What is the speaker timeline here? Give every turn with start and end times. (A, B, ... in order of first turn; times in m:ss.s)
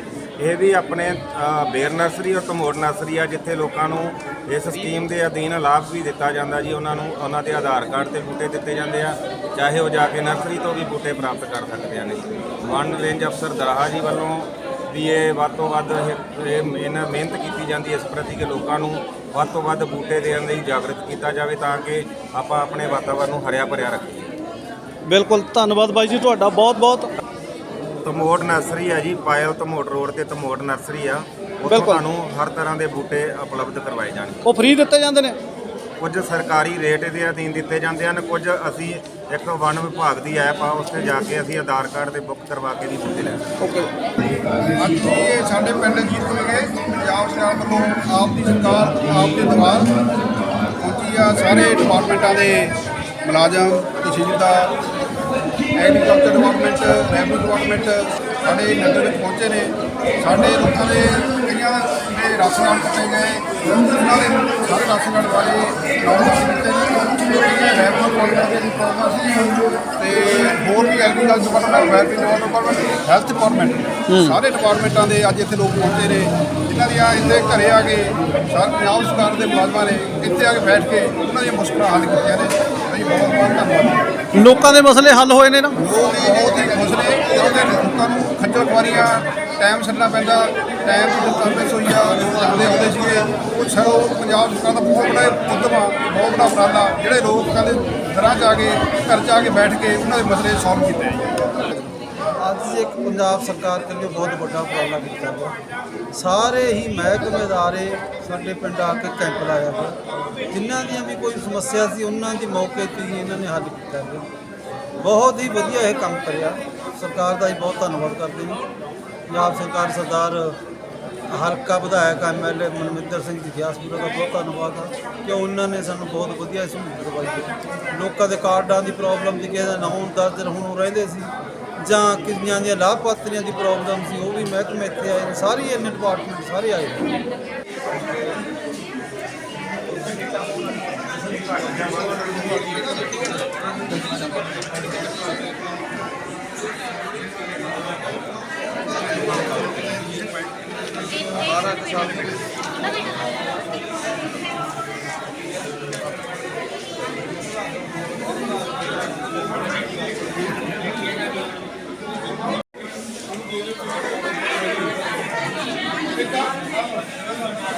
0:00.4-0:24.3 A
0:25.1-0:27.1 B
0:28.0-0:34.4 A
0:31.7-0:32.0 B
0:34.4-0:35.4 B
0:36.0-0:43.5 A
0:43.6-0:43.9 B
0:44.8-0:49.9 C
0:50.8-0:52.7 C
0:53.2-0:54.7 C
0:55.8-1:24.0 C
1:14.1-1:14.4 B
1:24.3-1:25.8 B
1:25.8-1:41.3 C
1:42.4-1:45.5 D
1:46.1-1:50.0 D
1:50.5-1:54.2 D
1:55.0-1:58.6 D
1:59.3-2:00.6 D
2:01.3-2:11.3 D
2:11.8-2:17.1 D